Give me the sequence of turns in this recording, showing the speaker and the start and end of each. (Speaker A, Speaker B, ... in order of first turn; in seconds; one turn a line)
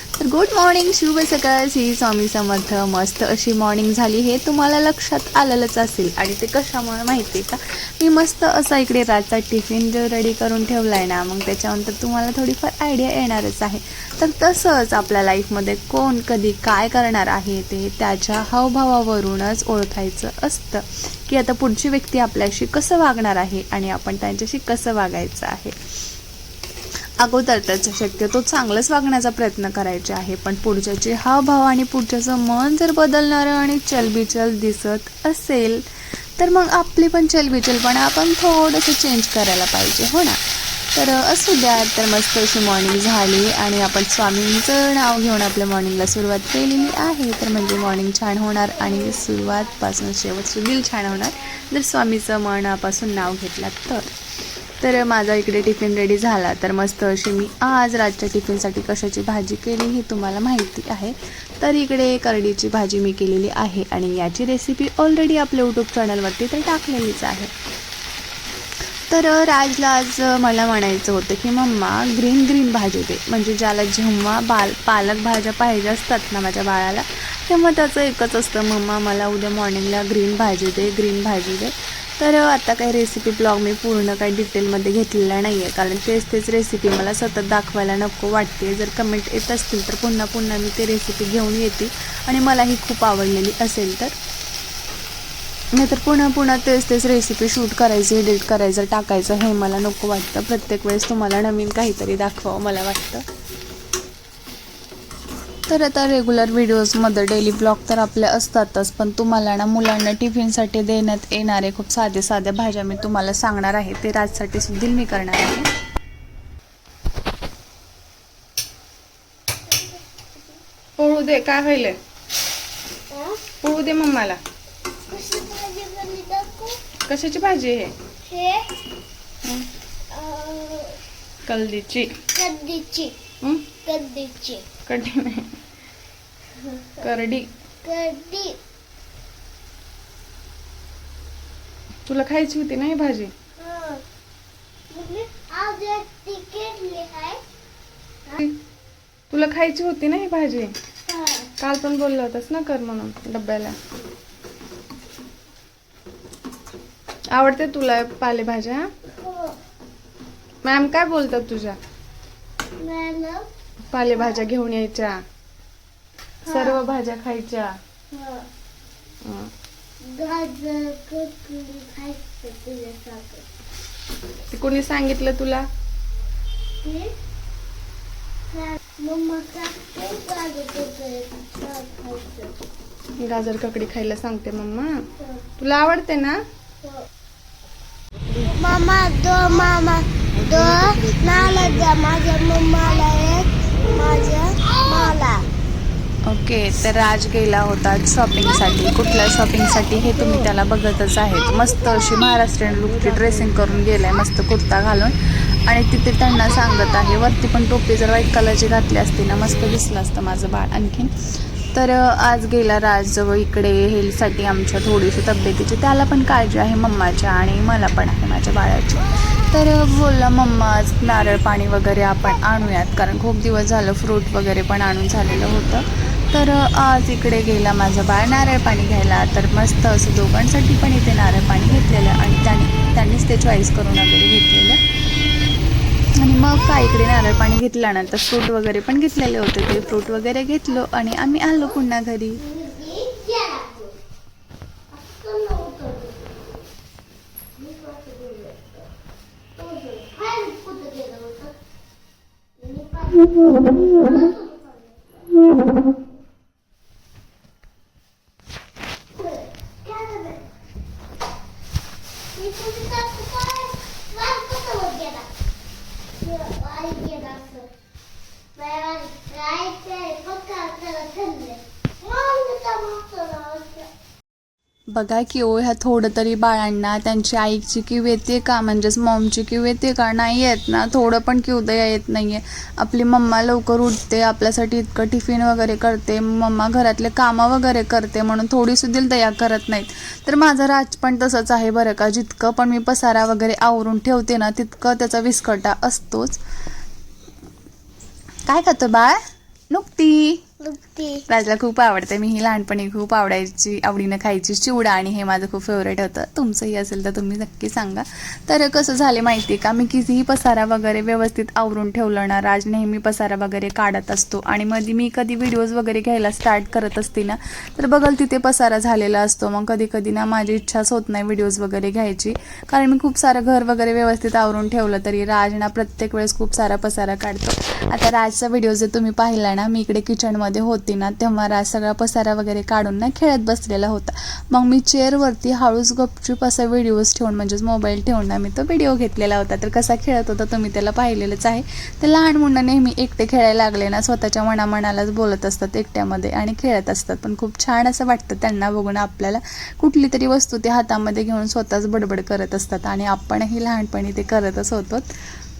Speaker A: 0.1-25.8
Speaker A: 27.2-35.8
Speaker A: 36.4-40.4
Speaker A: 40.9-54.1
Speaker A: 54.8-67.5
Speaker A: 69.1-94.1
Speaker A: 95.7-103.2
Speaker A: 105.7-115.7
Speaker B: 119.7-120.2
Speaker C: 121.0-122.0
Speaker B: 123.1-123.5
Speaker C: 123.6-124.4
Speaker B: 125.1-126.9
Speaker C: 127.0-127.9
Speaker B: 128.2-128.7
Speaker B: 130.1-131.0
Speaker C: 131.4-132.2
Speaker B: 132.2-133.2
Speaker C: 133.4-133.7
Speaker B: 133.7-134.8
Speaker C: 134.8-135.6
Speaker B: 136.5-137.0
Speaker C: 137.0-137.5
Speaker B: 137.8-138.6
Speaker C: 142.1-143.3
Speaker B: 143.6-144.0
Speaker B: 144.9-147.4
Speaker C: 149.3-150.7
Speaker B: 151.1-151.5
Speaker C: 151.6-153.8
Speaker C: 157.3-158.9
Speaker B: 159.0-159.6
Speaker C: 160.6-161.8
Speaker B: 162.8-163.5
Speaker C: 163.9-165.2
Speaker B: 164.1-164.5
Speaker B: 166.4-166.8
Speaker C: 166.4-167.7
Speaker B: 168.1-168.5
Speaker C: 169.2-169.5
Speaker B: 170.0-173.4
Speaker C: 174.5-175.7
Speaker B: 176.8-177.1
Speaker B: 178.5-182.6
Speaker C: 183.2-184.9
Speaker B: 185.2-185.4
Speaker C: 185.6-186.4
Speaker B: 188.4-195.4
Speaker A: 196.2-211.1
Speaker A: 211.7-234.8
Speaker A: 236.2-242.4
Speaker B: 240.9-241.6
Speaker B: 242.4-243.9
Speaker B: 244.9-246.7
Speaker B: 247.6-248.8
Speaker B: 249.6-251.5
Speaker B: 252.6-255.4
Speaker B: 259.1-260.5
Speaker B: 262.3-265.3
Speaker B: 266.2-267.7
Speaker B: 268.6-273.9
Speaker A: 274.9-296.4
Speaker A: 298.4-299.2
Speaker A: 299.7-300.4
Speaker B: 300.6-301.2
Speaker A: 301.3-355.1